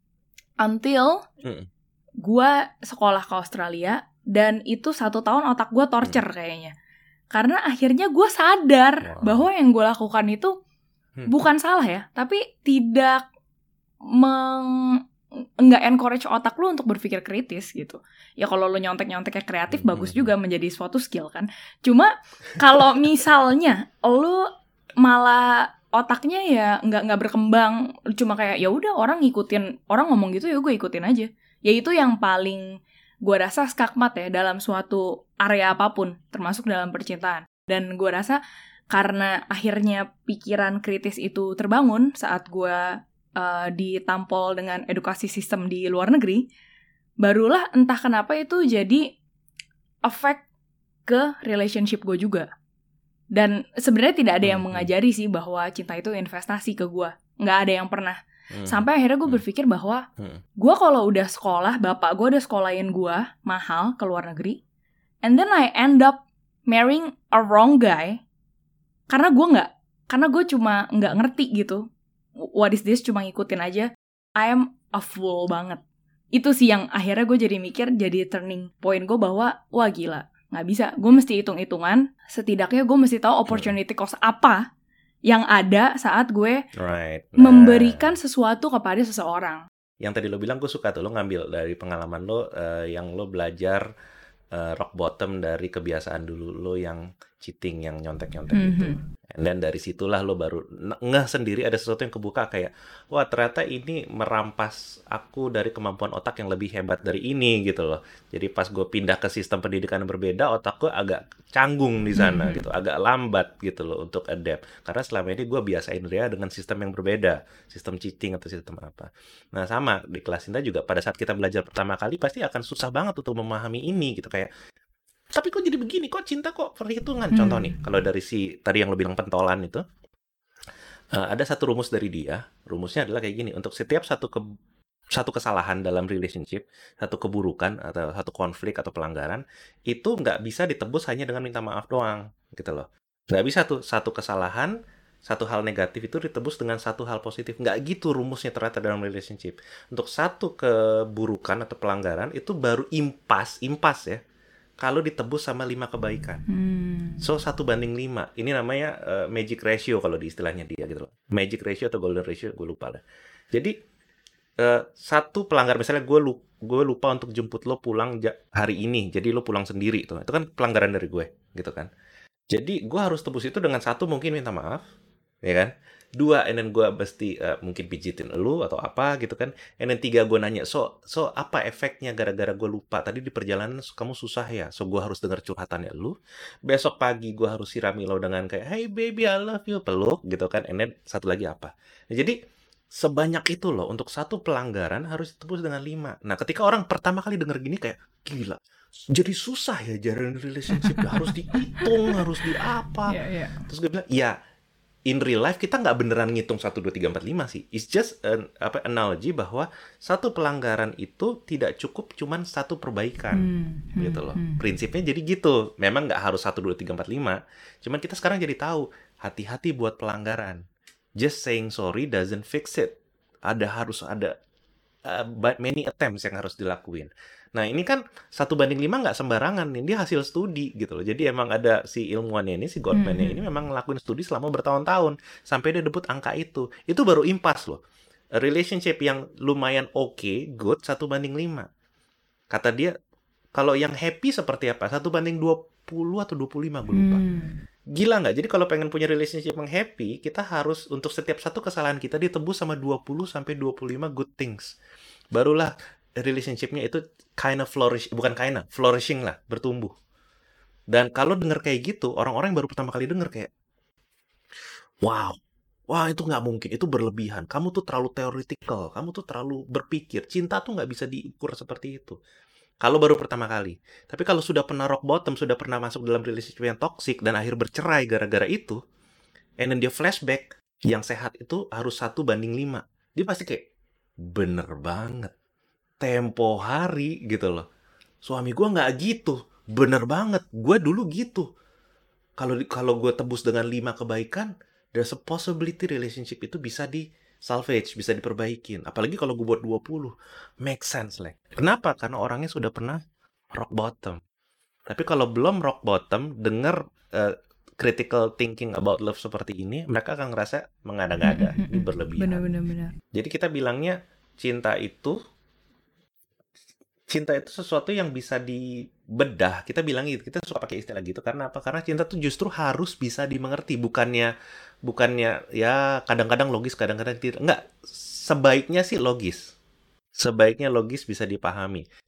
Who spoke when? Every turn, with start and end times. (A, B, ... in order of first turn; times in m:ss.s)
0:00.6-0:01.2 A
0:02.2-0:06.7 A
0:07.3-0:10.6 A
0:09.0-0:09.4 B
0:11.3-0:13.2 A
0:14.1-0:15.0 A
0:15.6-0:24.5 A
0:19.7-0:20.3 B
0:25.0-0:38.4 A
0:38.9-0:46.4 A
0:47.2-0:49.2 A
0:50.1-0:50.4 A
0:51.1-0:52.5 A
0:53.3-1:00.0 A
0:54.4-0:54.9 B
0:58.5-0:59.4 B
1:00.6-1:04.6 A
1:05.2-1:08.2 A
1:09.1-1:11.8 A
1:12.5-1:13.9 A
1:14.4-1:15.8 A
1:16.4-1:24.6 A
1:23.5-1:23.8 B
1:25.3-1:26.6 A
1:26.8-1:28.1 B
1:27.4-1:29.6 A
1:30.0-1:33.9 B
1:34.5-2:04.5 B
1:38.5-1:39.0 A
1:52.2-1:52.6 A
2:05.3-2:09.8 B
2:07.3-2:07.8 A
2:11.1-2:14.4 B
2:15.2-2:24.7 B
2:25.3-2:34.2 B
2:34.8-2:36.4 B
2:36.5-2:37.3 A
2:37.2-2:43.7 B
2:44.6-2:51.9 B
2:52.5-2:54.9 B
2:55.4-3:06.2 B
3:06.7-3:12.4 B
3:12.9-3:18.6 B
3:19.1-3:24.3 B
3:20.7-3:23.7 A
3:25.1-3:40.6 B
3:33.3-3:34.6 A
3:41.2-3:44.3 B
3:45.1-3:57.8 B
3:52.9-3:53.4 A
3:58.4-4:01.7 B
4:02.5-4:02.9 B
4:03.6-4:07.2 B
4:06.9-4:07.6 A
4:07.9-4:14.7 B
4:15.3-4:19.9 B
4:20.9-4:23.5 B
4:25.0-4:25.4 B
4:25.9-4:32.2 B
4:32.8-4:38.8 B
4:39.6-4:43.7 B
4:44.2-4:45.3 B
4:46.0-4:47.7 B
4:48.2-4:51.5 B
4:52.4-5:03.0 B
5:03.5-5:04.2 B
5:04.9-5:12.4 B
5:11.2-5:13.0 A
5:13.1-5:15.2 B
5:17.1-5:24.3 B
5:24.9-5:29.6 B
5:30.2-5:31.8 B